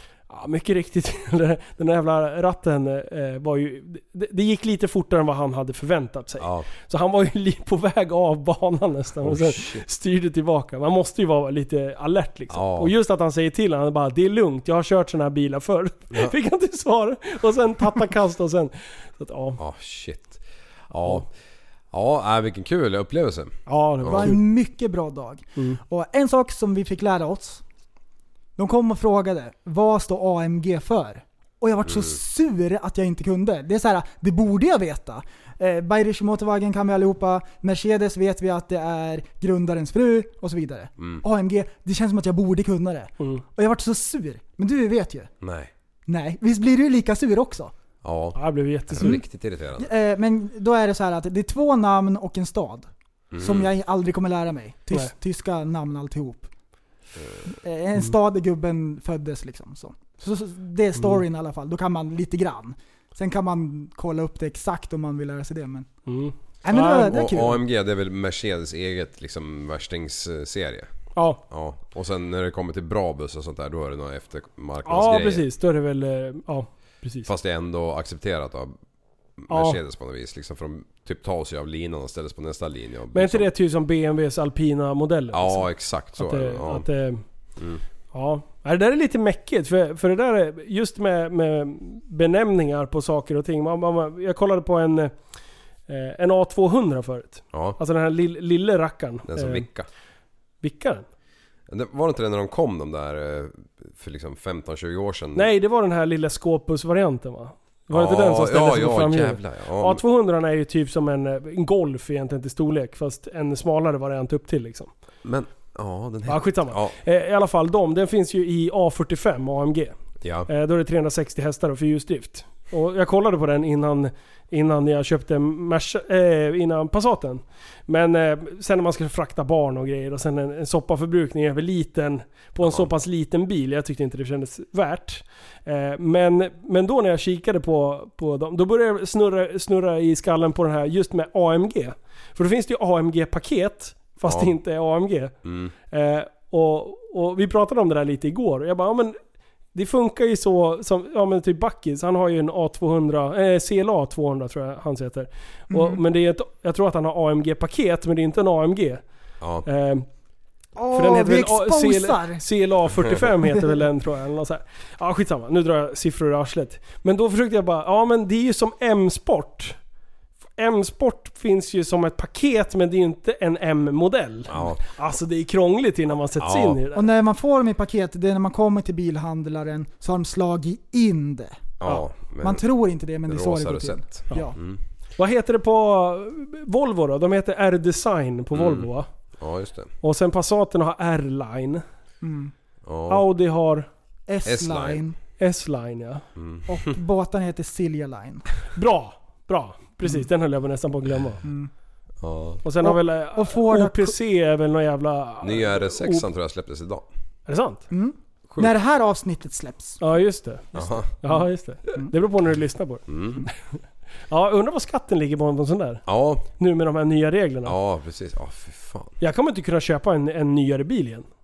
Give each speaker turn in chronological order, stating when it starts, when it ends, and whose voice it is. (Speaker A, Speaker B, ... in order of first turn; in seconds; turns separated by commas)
Speaker A: 0.3-19.6, Speaker B: 6.4-6.7, Speaker B: 9.2-9.8, Speaker B: 12.5-12.9, Speaker B: 19.6-21.3, Speaker B: 21.9-24.3, Speaker A: 23.6-24.4, Speaker C: 24.1-27.6, Speaker C: 28.6-45.3, Speaker B: 31.9-32.2, Speaker B: 41.0-41.2, Speaker B: 45.4-45.7, Speaker C: 46.1-47.7, Speaker B: 48.0-49.9, Speaker A: 48.3-49.2, Speaker C: 49.8-56.5, Speaker B: 53.3-53.7, Speaker C: 57.5-65.9, Speaker A: 66.0-67.0, Speaker C: 66.6-67.6, Speaker B: 66.7-75.5, Speaker A: 71.1-71.4, Speaker A: 74.8-77.3, Speaker B: 77.2-78.8, Speaker B: 79.4-83.5, Speaker A: 79.5-79.8, Speaker A: 83.1-87.2, Speaker B: 85.3-86.9, Speaker B: 87.5-87.8, Speaker A: 88.1-95.2, Speaker A: 95.9-99.7, Speaker B: 97.5-97.8, Speaker B: 99.3-99.9, Speaker A: 100.6-101.0, Speaker B: 101.7-105.5, Speaker A: 105.3-114.9, Speaker B: 107.9-110.0, Speaker B: 115.2-117.0, Speaker A: 116.2-119.9, Speaker B: 120.2-120.5, Speaker A: 120.5-145.4, Speaker B: 132.6-132.9, Speaker B: 144.2-144.5, Speaker B: 145.4-145.7, Speaker A: 145.9-149.2, Speaker A: 149.7-159.1, Speaker C: 155.7-156.0, Speaker B: 159.4-159.7, Speaker A: 159.6-160.1, Speaker C: 160.8-162.4, Speaker A: 160.9-169.8, Speaker A: 170.6-177.0, Speaker B: 174.5-174.8, Speaker B: 176.4-176.8, Speaker C: 176.9-181.7, Speaker B: 181.8-184.8, Speaker C: 182.4-184.6, Speaker A: 185.2-189.1, Speaker B: 188.5-189.9, Speaker A: 190.0-191.8, Speaker C: 192.2-192.5, Speaker B: 192.8-193.2, Speaker A: 193.1-193.9, Speaker C: 194.3-195.2, Speaker B: 194.4-195.0, Speaker A: 195.4-196.2, Speaker B: 196.3-196.9, Speaker C: 196.7-198.5, Speaker A: 198.7-201.4, Speaker C: 201.4-201.7, Speaker B: 202.2-202.6, Speaker A: 202.6-206.2, Speaker C: 202.8-204.2, Speaker B: 205.4-207.1, Speaker A: 207.5-207.9, Speaker C: 207.9-210.0, Speaker B: 208.5-208.7, Speaker A: 210.0-217.8, Speaker B: 210.7-211.1, Speaker B: 213.1-213.5, Speaker B: 216.1-216.5, Speaker B: 217.6-219.1, Speaker A: 219.2-221.3